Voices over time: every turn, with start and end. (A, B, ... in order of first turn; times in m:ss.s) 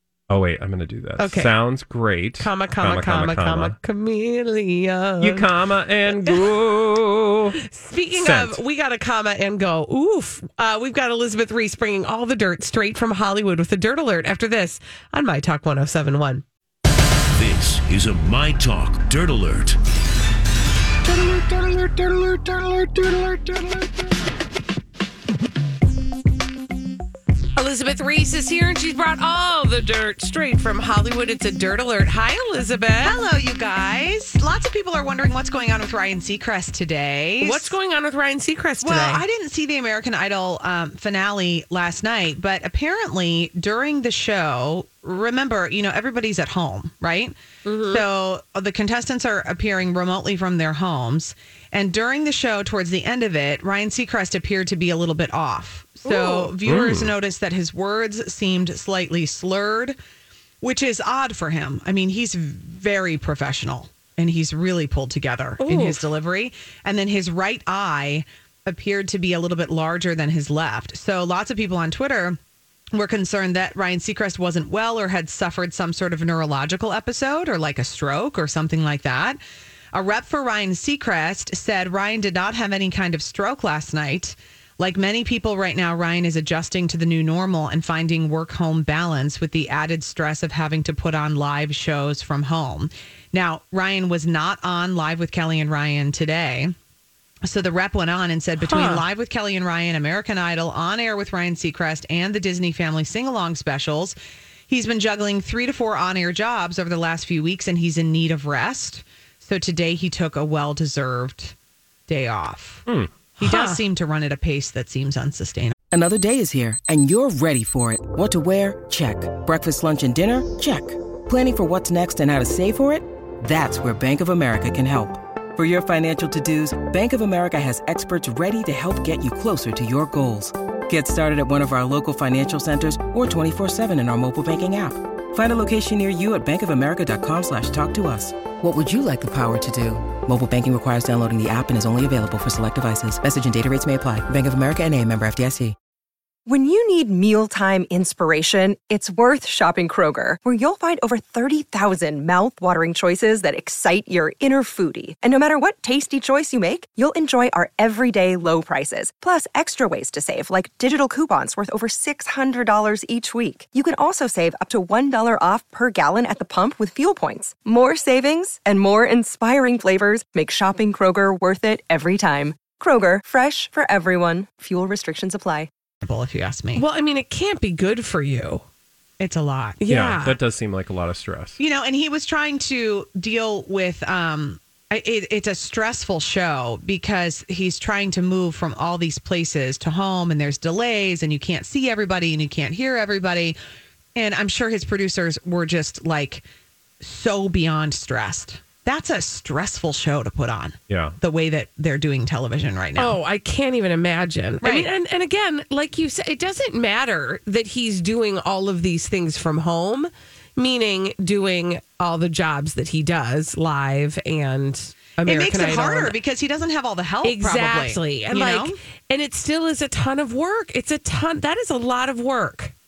0:00.3-0:03.8 A
0:01.2-0:01.5 B
0:02.4-0:05.5 B
0:05.2-0:07.6 A
0:07.6-0:16.4 B
0:08.1-0:08.6 A
0:17.3-0:19.8 C
0:27.6-0:33.2 B
0:33.0-0:37.8 D
0:37.4-0:39.2 B
0:38.8-0:47.4 D
0:47.6-0:48.0 B
0:47.9-1:00.0 D
0:56.0-0:56.5 B
0:56.6-0:57.1 A
1:00.6-1:12.4 D
1:05.6-1:06.1 B
1:12.9-1:19.4 D
1:19.9-1:36.7 D
1:37.4-1:44.2 D
1:38.6-1:39.0 B
1:44.7-1:51.6 D
1:52.1-1:52.8 D
1:52.9-1:53.1 A
1:53.4-1:53.8 B
1:53.4-1:55.8 D
1:55.9-2:25.8 E
2:26.5-2:55.7 F
2:56.0-2:56.8 D
2:56.8-2:58.7 B
2:59.2-2:59.8 D
2:59.8-3:00.4 B
2:59.9-3:01.6 A
3:01.6-3:13.6 D
3:14.2-3:16.4 D
3:17.0-3:23.2 D
3:20.9-3:21.2 A
3:23.0-3:36.2 B
3:24.6-3:24.9 D
3:35.2-3:38.8 D
3:37.2-3:42.7 B